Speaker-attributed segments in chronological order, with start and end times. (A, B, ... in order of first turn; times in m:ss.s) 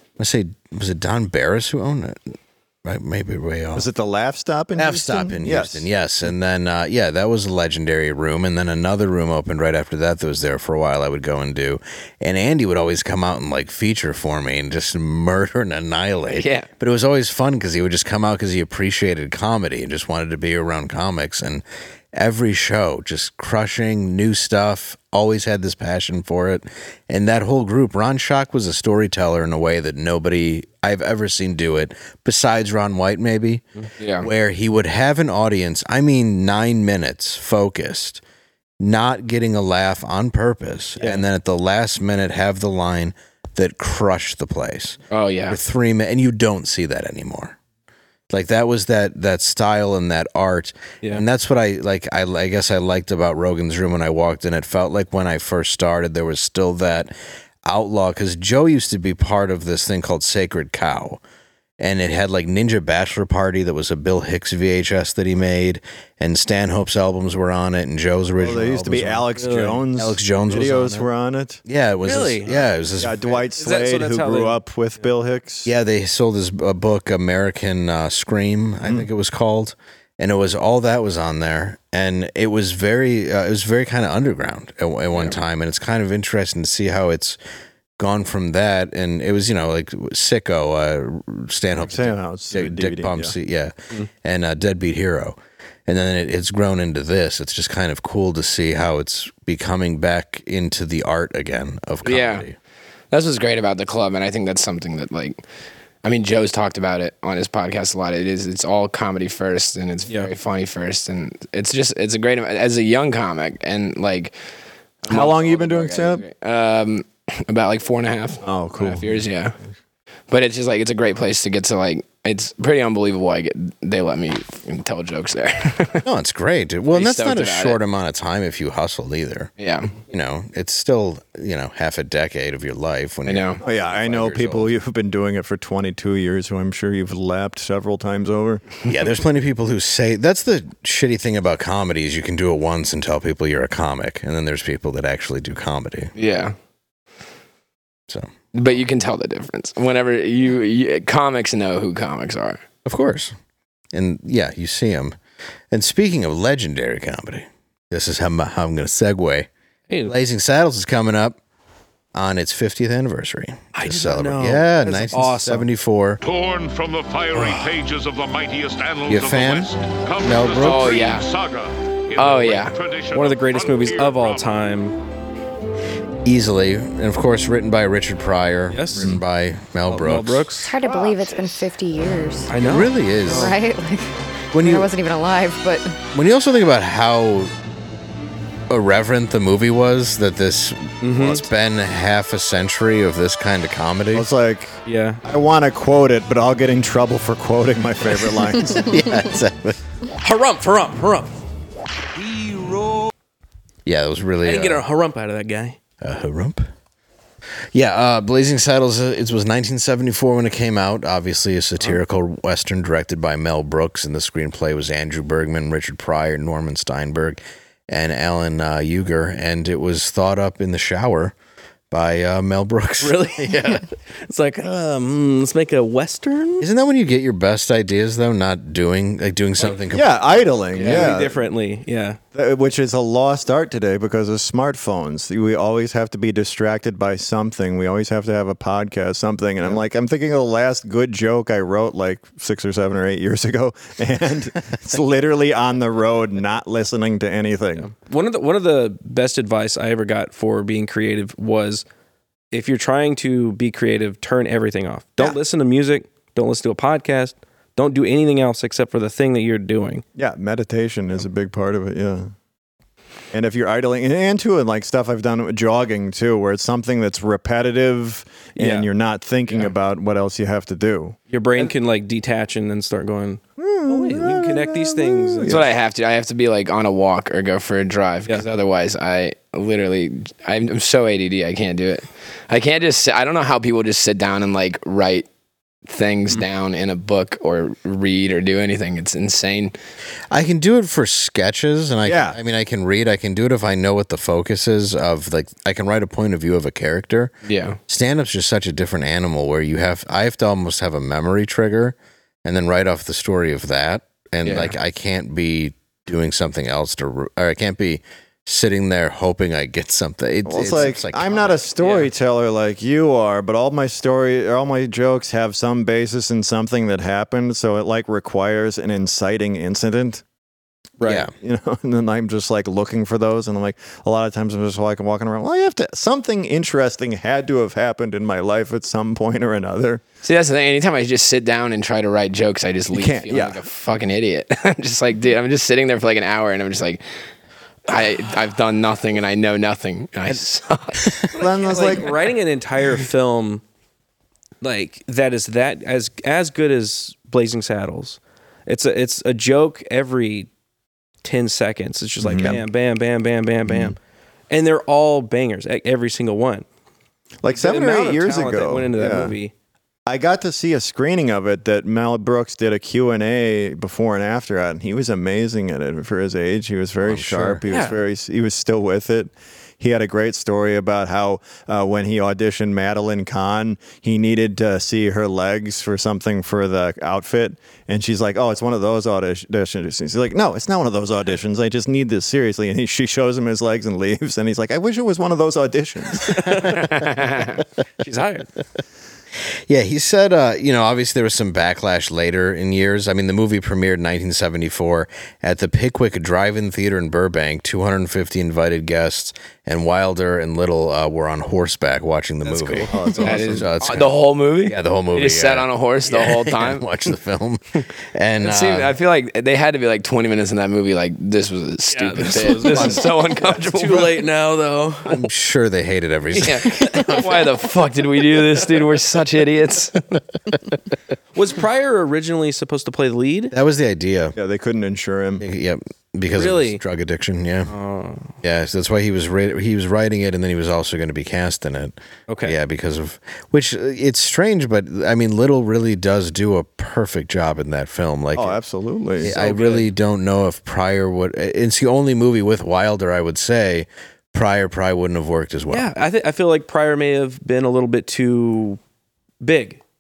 0:00.2-0:03.9 A
0:03.8-0:05.9 B
0:04.8-0:33.6 A
0:16.3-0:16.7 C
0:34.0-0:34.3 C
0:34.2-0:38.2 A
0:38.8-0:47.6 A
0:41.0-0:41.2 D
0:45.1-0:45.6 C
0:48.3-0:57.1 A
0:57.6-1:01.2 A
1:01.8-1:09.3 A
1:08.4-1:11.6 B
1:09.4-1:09.8 D
1:09.9-1:11.1 A
1:11.7-1:13.4 A
1:12.0-1:12.7 D
1:13.0-1:15.7 B
1:13.6-1:14.6 D
1:15.7-1:27.4 A
1:28.0-1:42.6 A
1:31.8-1:33.3 B
1:42.0-1:42.5 C
1:43.1-1:45.4 C
1:46.0-1:54.3 C
1:55.0-1:59.6 C
1:55.1-1:56.2 B
1:58.4-1:59.2 B
2:00.3-2:06.1 C
2:06.0-2:09.5 A
2:06.9-2:07.8 C
2:09.6-2:10.0 C
2:10.1-2:14.7 A
2:13.3-2:13.6 C
2:13.6-2:18.7 B
2:18.8-2:26.1 A
2:26.2-2:26.6 C
2:28.5-2:32.6 C
2:32.9-2:33.4 A
2:33.9-2:35.2 A
2:35.7-2:39.5 A
2:39.9-2:40.2 D
2:40.0-2:41.4 A
2:42.1-2:46.2 A
2:43.7-2:45.7 D
2:46.2-2:54.6 E
2:49.1-2:51.0 A
2:50.6-2:51.3 C
2:52.2-2:52.8 C
2:53.1-2:55.0 D
2:56.2-3:00.5 A
2:58.7-2:59.1 D
2:59.9-3:00.7 D
3:00.6-3:02.6 F
3:00.9-3:01.6 E
3:02.5-3:03.6 D
3:02.6-3:03.5 A
3:03.3-3:06.0 F
3:04.5-3:04.9 A
3:06.1-3:07.5 A
3:08.7-3:14.3 A
3:11.0-3:11.4 D
3:14.1-3:19.0 B
3:14.9-3:15.2 D
3:18.8-3:19.8 A
3:20.2-3:21.3 D
3:23.8-3:24.9 A
3:24.4-3:25.8 D
3:26.0-3:26.6 A
3:27.7-3:41.4 A
3:41.9-3:43.8 A
3:43.0-3:46.7 D
3:46.6-3:50.3 A
3:49.9-3:51.4 B
3:50.7-3:51.1 C
3:50.8-3:52.2 D
3:52.3-4:07.9 B
4:07.8-4:11.8 D
4:12.5-4:20.0 D
4:20.2-4:22.3 B
4:23.3-4:31.2 B
4:28.6-4:28.9 D
4:31.3-4:35.6 D
4:33.6-4:35.7 B
4:35.5-4:45.3 C
4:45.9-4:49.7 C
4:50.3-4:57.3 A
4:52.0-4:52.4 B
4:57.4-4:57.8 C
4:57.9-5:11.6 A
5:04.4-5:04.8 C
5:10.4-5:20.2 B
5:21.0-5:21.2 D
5:21.0-5:21.3 A
5:21.1-5:30.0 B
5:30.2-5:37.0 C
5:32.9-5:33.6 B
5:37.9-5:41.2 C
5:41.0-5:41.3 A
5:41.3-5:42.1 B
5:41.4-5:43.6 D
5:44.6-5:50.5 D
5:51.2-5:54.0 D
5:52.2-5:52.6 B
5:53.7-5:54.0 B
5:54.5-5:56.6 D
5:57.4-5:59.4 B
5:57.5-5:59.5 D
6:00.1-6:26.7 B
6:07.0-6:07.6 A
6:07.7-6:08.0 D
6:26.3-6:26.9 D
6:26.9-6:27.6 C
6:28.0-6:28.5 D
6:29.7-6:42.9 A
6:42.4-6:43.7 D
6:42.9-6:43.7 B
6:43.2-6:46.9 C
6:43.5-6:49.0 A
6:48.4-6:54.2 C
6:51.9-6:55.3 D
6:55.1-6:57.3 A
6:56.4-7:00.0 C
6:56.7-6:57.1 D
7:01.4-7:03.5 D
7:03.5-7:04.4 A
7:04.4-7:05.4 B
7:05.4-7:07.7 A
7:06.3-7:06.8 D
7:07.7-7:08.3 D
7:08.4-7:18.6 A
7:12.3-7:12.6 D
7:18.4-7:19.3 B
7:19.2-7:25.9 A
7:19.2-7:19.9 D
7:25.7-7:28.8 D
7:29.4-7:29.8 D